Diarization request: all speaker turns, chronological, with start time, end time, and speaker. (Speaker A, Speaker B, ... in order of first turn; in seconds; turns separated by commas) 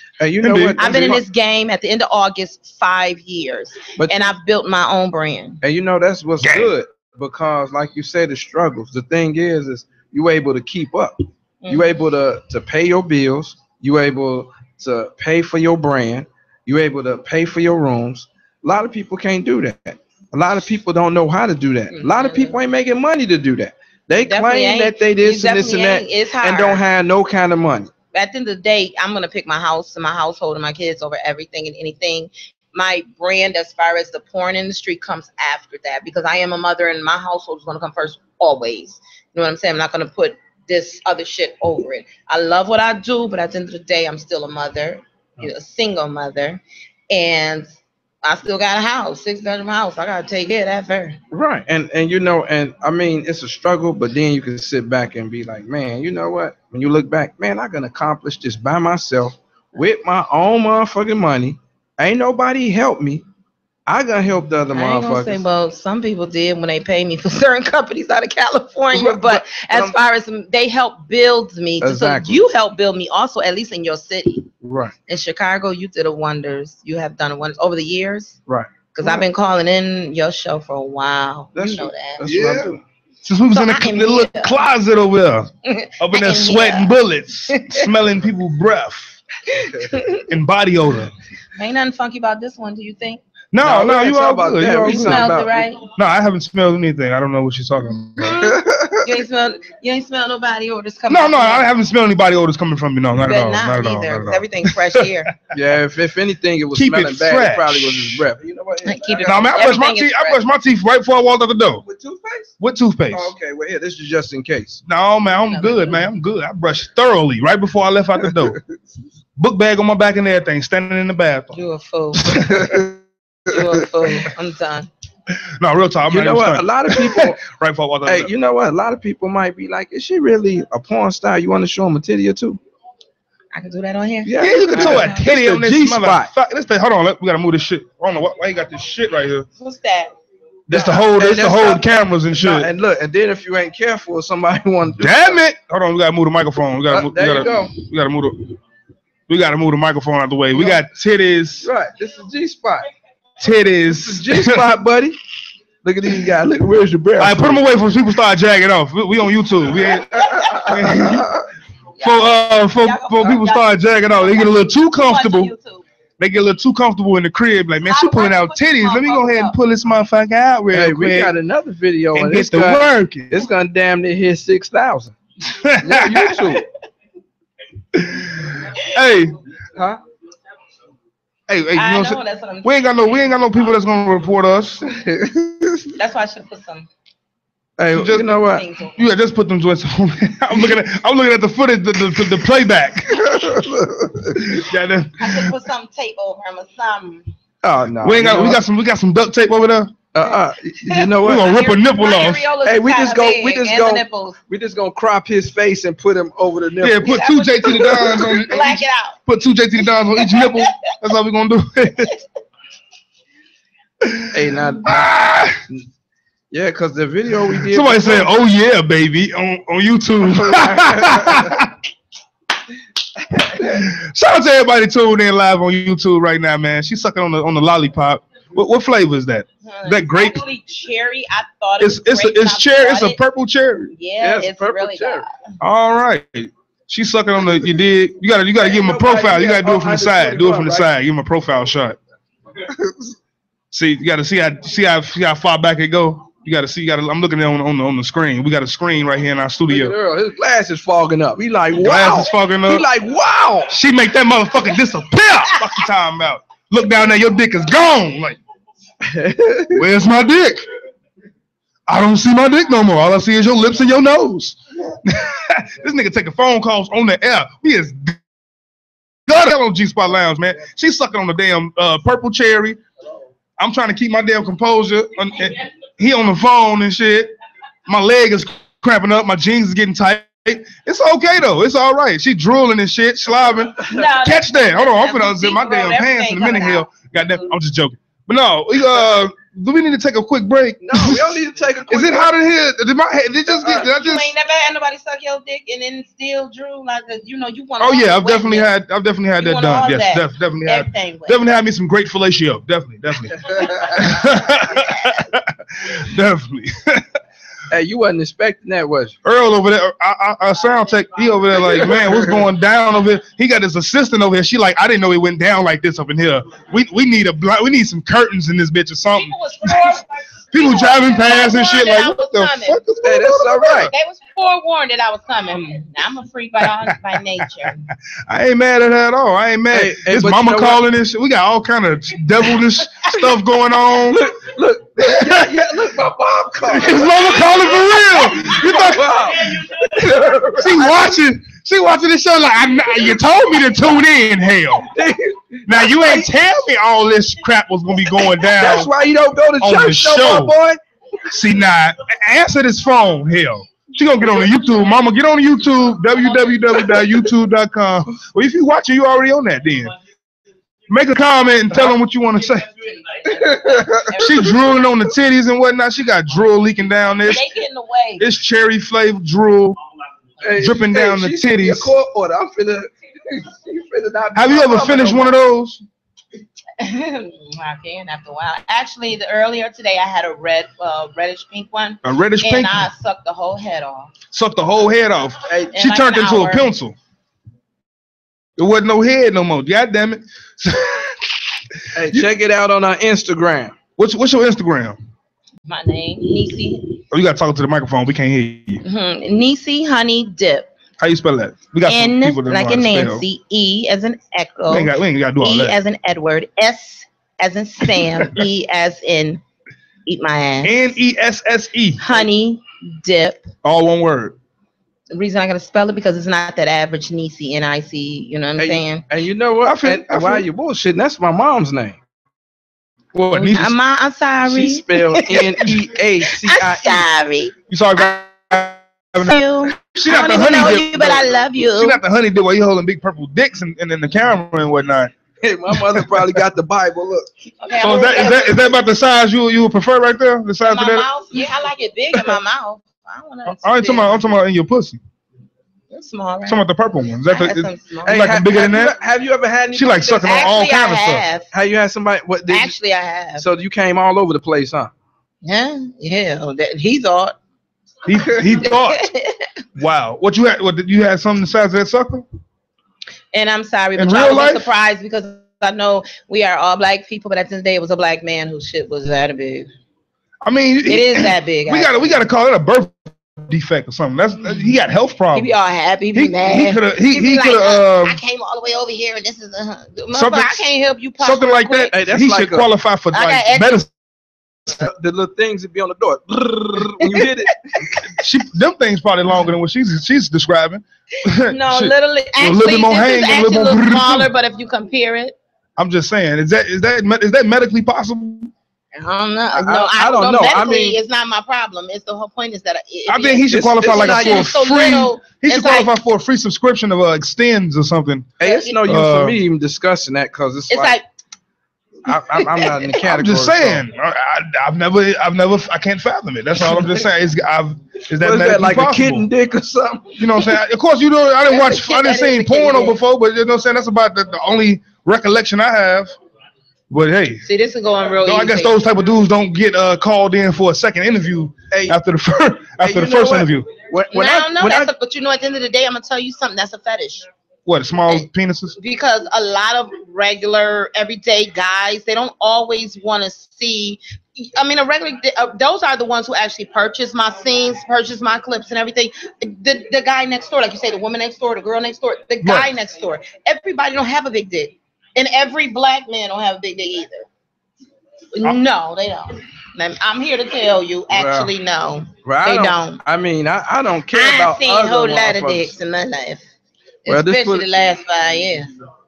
Speaker A: 0.2-1.2, Speaker B: 0.4-0.9, Speaker C: 0.8-5.6, Speaker A: 4.0-4.3, Speaker A: 5.6-27.9, Speaker B: 6.4-6.7, Speaker C: 11.6-12.0, Speaker C: 21.9-22.6, Speaker C: 24.2-26.8, Speaker C: 28.1-47.7, Speaker C: 48.2-51.2, Speaker A: 51.3-63.2, Speaker A: 63.9-65.4, Speaker C: 64.7-74.5, Speaker A: 68.9-69.9, Speaker A: 71.8-72.4, Speaker A: 74.6-74.9, Speaker C: 75.1-78.4, Speaker A: 78.5-79.2, Speaker C: 78.9-82.3, Speaker A: 81.5-82.8, Speaker B: 82.3-82.6, Speaker B: 83.2-89.2, Speaker C: 83.5-84.5, Speaker C: 85.6-86.9, Speaker C: 87.5-87.8, Speaker C: 89.5-90.2, Speaker B: 90.3-91.1, Speaker C: 91.6-93.2, Speaker B: 93.5-98.5, Speaker A: 93.6-95.6, Speaker C: 94.8-95.8, Speaker C: 98.2-101.7, Speaker A: 98.5-99.0, Speaker B: 101.1-105.1, Speaker C: 103.2-105.3, Speaker A: 105.5-109.7, Speaker B: 106.7-108.2, Speaker C: 108.8-110.4, Speaker B: 109.2-111.8, Speaker A: 111.8-112.5, Speaker B: 112.6-113.3, Speaker A: 113.1-114.8, Speaker B: 114.9-118.6, Speaker C: 115.5-116.0, Speaker B: 119.4-121.6, Speaker C: 121.5-122.7, Speaker B: 122.5-122.8, Speaker C: 123.5-124.9, Speaker B: 125.6-128.3, Speaker A: 126.1-127.4, Speaker A: 128.1-132.6, Speaker C: 133.5-135.2, Speaker A: 134.2-136.3, Speaker B: 134.4-139.5, Speaker C: 139.6-140.1, Speaker B: 140.7-142.7, Speaker A: 140.7-145.4, Speaker B: 145.0-148.6, Speaker A: 146.9-147.7, Speaker B: 149.3-151.7, Speaker A: 151.6-152.9, Speaker B: 153.4-154.7, Speaker A: 153.9-155.2, Speaker A: 155.8-157.6, Speaker B: 157.2-161.3, Speaker A: 160.3-161.2, Speaker C: 162.0-165.8, Speaker B: 162.0-165.5, Speaker B: 166.2-171.3, Speaker C: 167.8-169.6, Speaker A: 170.7-175.1, Speaker B: 172.1-173.5, Speaker B: 175.5-176.6, Speaker A: 175.8-176.6, Speaker B: 177.9-179.3, Speaker B: 181.5-184.8, Speaker C: 181.7-182.8, Speaker A: 185.1-185.8, Speaker C: 185.9-186.9, Speaker A: 187.8-188.6, Speaker B: 187.9-188.4, Speaker C: 188.3-189.0, Speaker B: 188.9-193.6, Speaker A: 193.4-194.2, Speaker B: 194.3-195.5, Speaker C: 195.2-197.2, Speaker A: 197.6-198.6, Speaker B: 198.0-199.9, Speaker A: 200.1-201.5, Speaker C: 200.9-204.4, Speaker B: 201.2-202.5, Speaker A: 202.6-207.1, Speaker B: 206.8-212.1, Speaker C: 207.0-209.2, Speaker C: 210.2-210.6, Speaker B: 214.0-215.6, Speaker A: 214.3-215.1, Speaker A: 216.5-218.3, Speaker B: 217.7-221.7, Speaker A: 220.4-221.4, Speaker B: 223.5-230.4, Speaker C: 229.6-233.2, Speaker B: 231.8-233.9, Speaker C: 233.9-235.3, Speaker A: 234.2-235.2, Speaker B: 235.6-242.0, Speaker A: 238.6-240.9, Speaker B: 243.7-249.9, Speaker A: 249.7-253.7, Speaker B: 251.8-252.8, Speaker B: 253.7-258.4, Speaker A: 259.0-259.8, Speaker B: 259.7-260.6, Speaker B: 261.9-268.2, Speaker B: 269.3-272.8, Speaker B: 273.6-277.3, Speaker B: 277.9-294.3, Speaker C: 283.9-286.9, Speaker A: 290.8-292.3, Speaker C: 293.6-298.7, Speaker B: 297.8-307.1, Speaker C: 299.4-301.4, Speaker A: 307.7-309.1, Speaker B: 309.2-323.9, Speaker C: 319.1-322.8, Speaker A: 323.0-323.9, Speaker C: 323.8-327.8, Speaker B: 328.3-334.2, Speaker A: 329.7-330.8, Speaker A: 334.1-337.3, Speaker B: 335.0-335.6, Speaker B: 336.6-339.3, Speaker A: 338.4-340.8, Speaker B: 340.5-344.9, Speaker A: 344.9-346.3, Speaker B: 345.7-348.9, Speaker A: 348.4-350.8, Speaker B: 349.6-350.5, Speaker B: 351.3-359.9, Speaker B: 360.9-362.7, Speaker C: 363.1-364.6, Speaker A: 363.4-364.1, Speaker B: 364.1-367.5, Speaker C: 367.2-368.3, Speaker B: 368.2-369.8, Speaker A: 370.4-375.4, Speaker B: 370.6-371.9, Speaker B: 374.3-375.8, Speaker C: 376.8-384.1, Speaker B: 382.0-382.9, Speaker B: 384.3-386.9, Speaker C: 385.7-386.7, Speaker B: 388.6-391.2, Speaker A: 391.9-393.7, Speaker B: 394.0-395.0, Speaker C: 395.7-397.0, Speaker B: 397.1-398.8, Speaker C: 398.8-400.7, Speaker B: 401.0-403.2, Speaker C: 401.9-409.4, Speaker B: 404.7-405.8, Speaker C: 410.1-410.8, Speaker B: 410.6-412.0, Speaker C: 412.0-413.4, Speaker B: 413.6-414.4, Speaker C: 415.1-419.0, Speaker A: 418.6-422.0, Speaker B: 419.6-420.4, Speaker B: 423.1-423.7, Speaker C: 423.3-425.6, Speaker A: 424.5-427.1, Speaker C: 426.4-427.5, Speaker B: 427.7-435.1, Speaker C: 429.2-432.0, Speaker A: 435.4-437.3, Speaker B: 435.7-436.0, Speaker C: 437.6-438.7, Speaker B: 437.8-441.1, Speaker C: 440.6-444.3, Speaker B: 443.4-445.0, Speaker C: 445.9-446.6, Speaker B: 446.4-449.0, Speaker C: 447.3-448.2, Speaker A: 448.0-450.5, Speaker B: 449.7-451.2, Speaker C: 450.2-451.5, Speaker A: 451.5-452.7, Speaker C: 452.5-453.4, Speaker A: 453.4-454.9, Speaker C: 455.4-457.3, Speaker B: 458.0-459.1, Speaker C: 458.6-459.5, Speaker B: 459.8-462.2, Speaker C: 463.3-469.7, Speaker B: 463.9-464.7, Speaker B: 470.4-475.5, Speaker C: 470.9-472.2, Speaker C: 475.3-481.9, Speaker B: 476.1-478.2, Speaker B: 480.1-480.6, Speaker B: 481.2-483.9, Speaker A: 481.9-482.7, Speaker C: 483.1-483.8, Speaker A: 484.8-487.8, Speaker B: 488.2-494.3, Speaker C: 491.5-495.4, Speaker B: 495.8-498.5, Speaker C: 498.9-505.9, Speaker A: 499.5-501.0, Speaker B: 503.1-508.3, Speaker A: 503.5-504.5, Speaker A: 508.4-510.9, Speaker C: 508.4-508.8, Speaker B: 508.9-509.4, Speaker C: 510.7-511.0, Speaker A: 512.0-513.8, Speaker C: 512.4-512.7, Speaker B: 513.0-519.3, Speaker A: 518.2-520.2, Speaker B: 520.2-526.1, Speaker C: 521.5-523.0, Speaker B: 526.9-527.4, Speaker C: 527.4-528.8, Speaker B: 528.2-533.7, Speaker A: 531.7-532.0, Speaker A: 532.8-534.9, Speaker C: 534.1-537.3, Speaker B: 537.6-538.8, Speaker C: 538.8-557.3, Speaker B: 552.4-552.7, Speaker C: 558.3-563.0, Speaker A: 561.1-561.5, Speaker A: 562.2-565.7, Speaker C: 564.1-566.4, Speaker C: 567.0-568.7, Speaker A: 567.1-567.6